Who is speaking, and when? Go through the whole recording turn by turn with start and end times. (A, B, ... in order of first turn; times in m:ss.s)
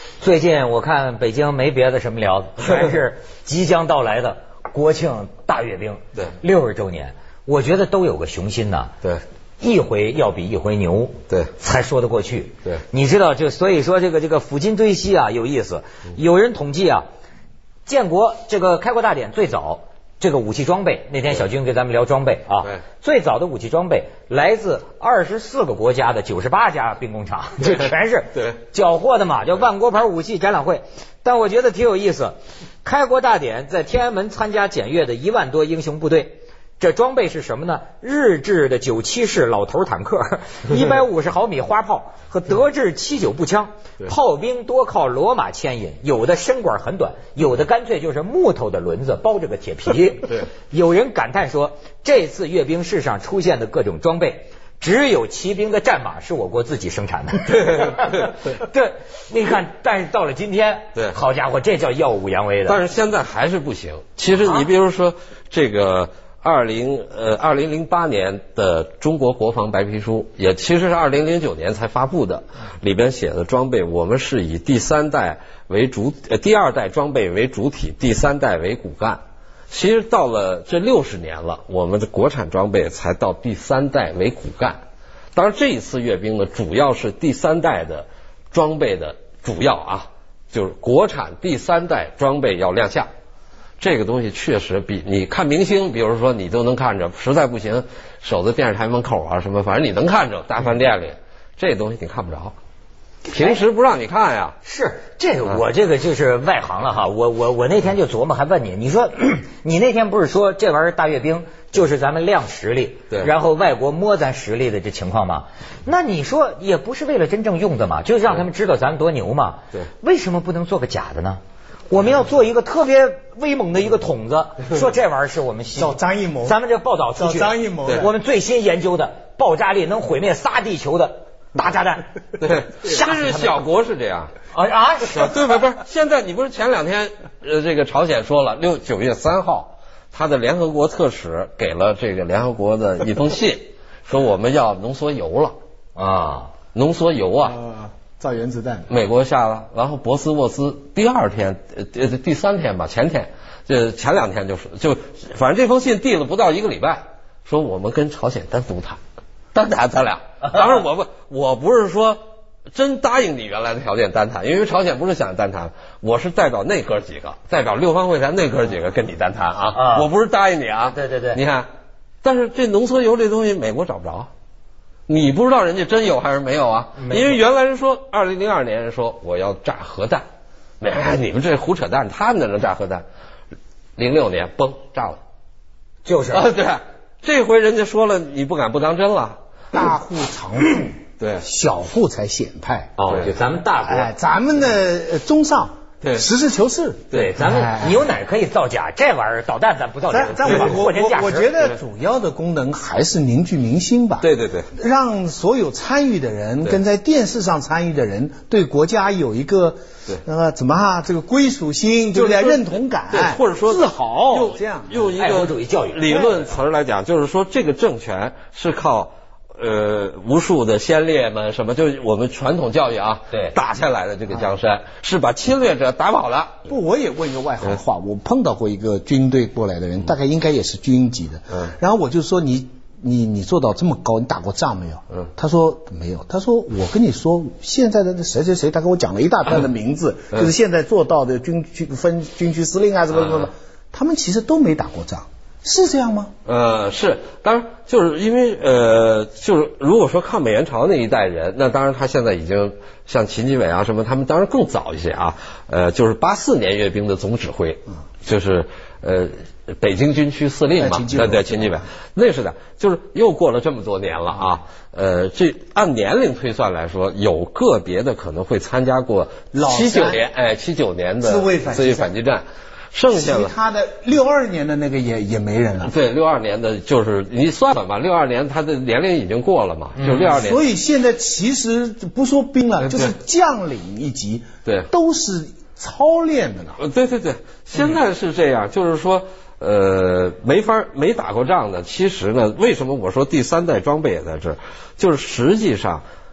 0:00.2-0:09.0 A
0:09.6-0:17.0 A
0:17.8-1:02.8 A
0:57.5-0:58.6 B
1:02.7-1:24.8 B
1:25.3-1:33.1 B
1:33.8-1:42.6 B
1:43.3-1:44.6 B
1:43.3-1:43.6 A
1:44.6-2:12.1 A
2:05.8-2:06.6 C
2:07.2-2:08.1 C
2:12.4-2:14.3 B
2:12.8-2:13.6 A
2:14.5-2:15.4 A
2:15.1-2:25.6 B
2:26.0-2:26.5 A
2:26.7-2:27.6 B
2:27.4-2:28.9 C
2:28.9-2:39.0 B
2:39.5-2:42.2 B
2:42.7-2:51.7 B
2:49.7-2:50.1 A
2:50.9-2:51.4 A
2:52.2-2:54.3 B
2:55.1-3:00.2 B
2:57.0-2:57.4 A
3:00.8-3:03.0 B
3:04.0-3:05.2 B
3:06.0-3:06.5 A
3:06.3-3:09.4 B
3:09.7-3:13.0 C
3:11.2-3:11.4 B
3:13.0-3:14.1 A
3:13.0-3:13.3 B
3:13.8-3:18.0 C
3:16.0-3:16.3 B
3:17.1-3:21.5 A
3:20.1-3:35.1 C
3:24.2-3:24.7 B
3:32.2-3:46.6 B
3:35.2-3:36.3 A
3:46.7-4:06.3 C
4:06.4-4:33.5 B
4:20.8-4:21.8 C
4:29.5-4:30.2 C
4:31.2-4:32.1 C
4:33.1-4:35.9 C
4:35.8-4:40.6 B
4:40.0-4:40.3 A
4:40.2-4:46.8 C
4:42.9-4:43.1 B
4:46.8-4:56.0 B